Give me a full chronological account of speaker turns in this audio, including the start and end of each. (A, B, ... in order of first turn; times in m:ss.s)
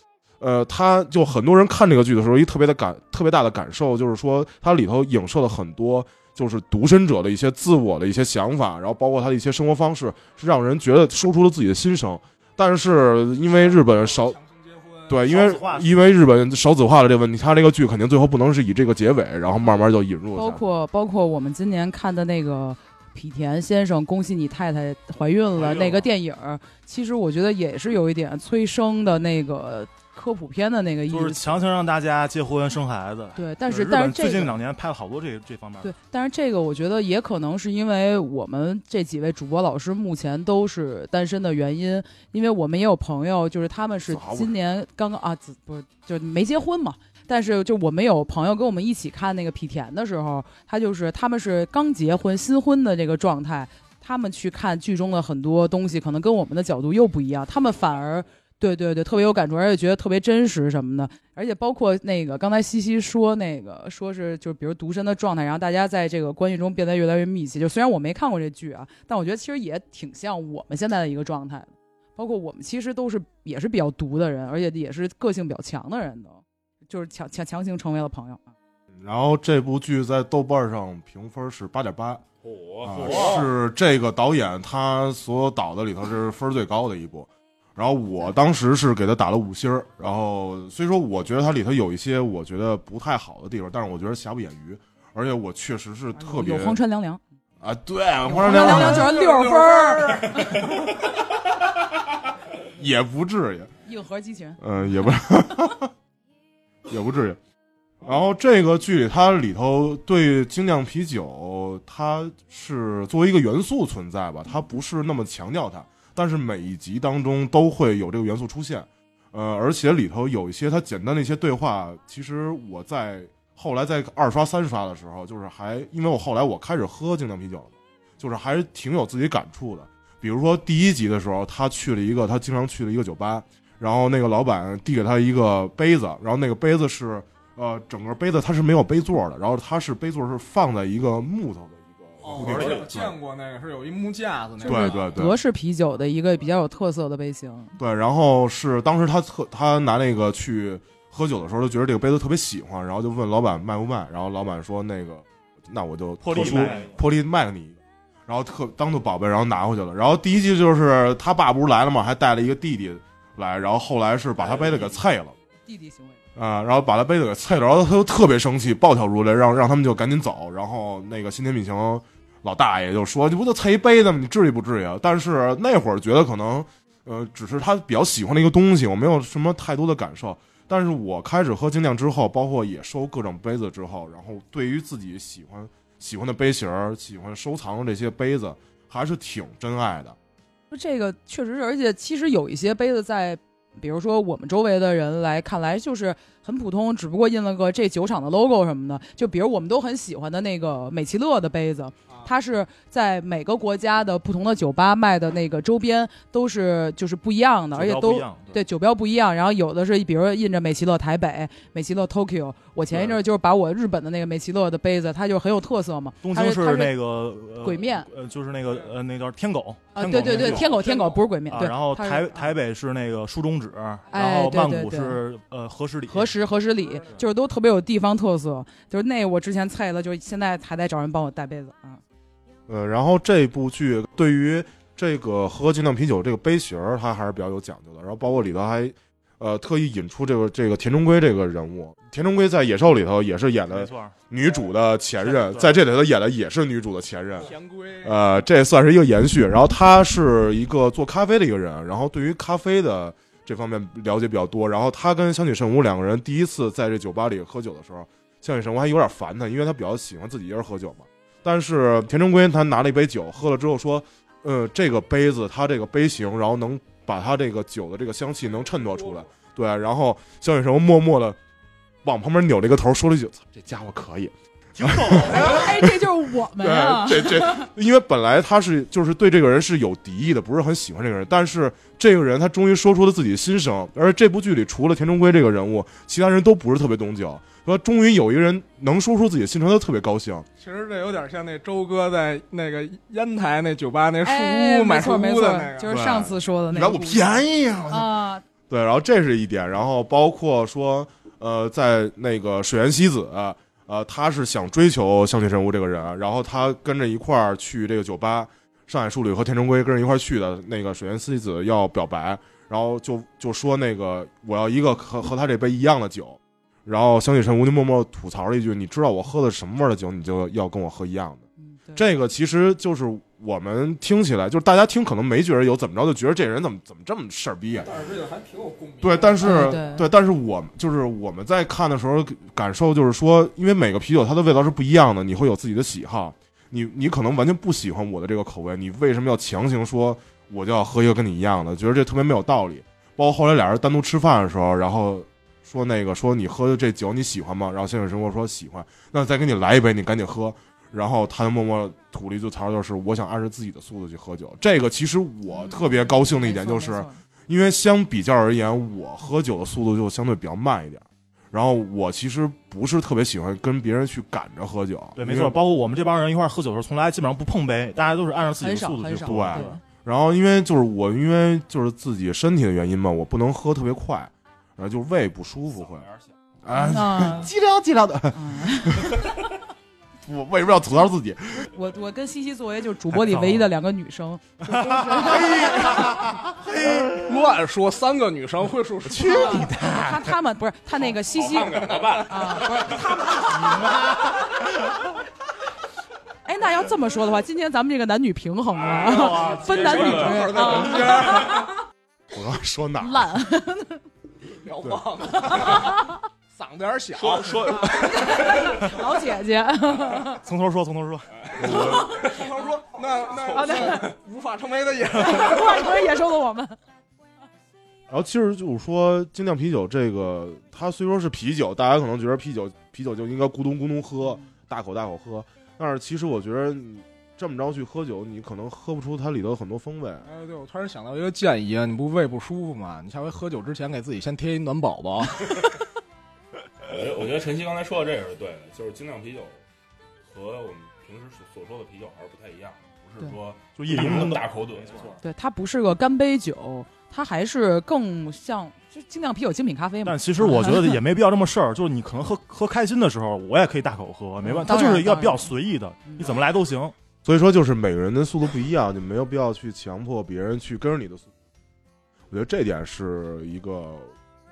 0:00.4-0:14.4 A
0:13.5-0:15.2 B
0:15.1-0:20.6 A
0:15.2-0:16.0 C
0:20.4-0:31.5 D
0:31.1-0:35.9 C
0:33.4-0:34.6 D
0:35.8-1:18.5 D
0:44.1-0:44.5 A
1:19.0-1:22.2 A
1:22.4-1:23.5 E
1:22.8-1:36.8 A
1:22.9-1:23.4 C
1:36.2-1:37.2 D
1:37.6-1:39.1 A
1:38.2-1:40.8 D
1:38.4-1:40.5 B
1:42.6-1:43.7 A
1:43.8-1:44.6 D
1:44.6-1:45.9 A
1:46.9-1:47.4 A
1:48.0-2:23.2 A
2:22.2-2:25.2 B
2:24.6-2:27.7 D
2:24.6-2:25.4 A
2:27.8-2:45.4 A
2:36.2-2:37.0 C
2:45.7-2:46.2 D
2:46.4-3:10.2 A
3:10.7-3:37.0 D
3:27.7-3:28.6 C
3:36.2-3:40.7 C
3:37.6-3:38.1 D
3:40.0-3:42.5 D
3:40.2-3:41.3 B
3:41.5-3:46.3 C
3:44.1-3:45.2 D
3:46.1-3:52.0 D
3:52.7-4:31.4 A
4:03.7-4:04.2 C
4:05.2-4:05.8 C
4:07.4-4:08.2 B
4:28.7-4:29.2 B
4:32.0-4:36.0 A
4:34.8-4:35.8 C
4:35.2-4:37.7 D
4:36.6-4:50.5 A
4:50.6-4:55.9 B
4:54.2-4:58.4 D
4:55.9-4:58.2 A
4:58.7-5:21.4 A
5:21.6-5:22.1 D
5:22.0-5:27.9 A
5:27.8-5:29.8 B
5:29.0-6:05.6 A
5:29.4-5:30.0 D
5:55.5-5:57.2 D
6:05.2-6:09.8 C
6:08.6-6:09.8 D
6:09.3-6:16.1 A
6:15.8-6:16.3 E
6:16.6-6:19.4 A
6:16.7-6:17.5 D
6:18.3-6:19.4 D
6:20.2-6:21.7 A
6:21.6-6:26.3 D
6:23.1-6:23.7 C
6:24.6-6:27.2 C
6:26.8-6:29.7 B
6:29.1-6:30.4 C
6:29.2-6:33.8 D
6:31.2-6:33.2 E
6:33.4-6:34.7 C
6:36.4-6:41.7 D
6:39.0-6:41.7 B
6:39.2-6:40.8 E
6:42.3-6:43.3 A
6:43.0-6:44.0 D
6:44.5-6:46.0 B
6:45.3-6:46.2 D
6:46.5-6:48.7 B
6:47.2-6:48.2 E
6:47.9-6:50.4 D
6:50.4-6:51.3 C
6:51.6-6:52.2 A
6:51.6-6:56.0 B
6:51.7-6:52.3 D
6:53.5-6:54.1 D
6:55.2-6:56.8 D
6:58.1-7:10.3 A
7:04.2-7:04.5 D
7:10.2-7:15.7 B
7:16.8-7:19.6 E
7:20.3-7:25.2 E
7:23.8-7:25.2 C
7:25.2-7:31.0 D
7:30.0-7:37.0 C
7:34.4-7:35.5 D
7:37.2-7:41.3 A
7:42.3-7:44.1 A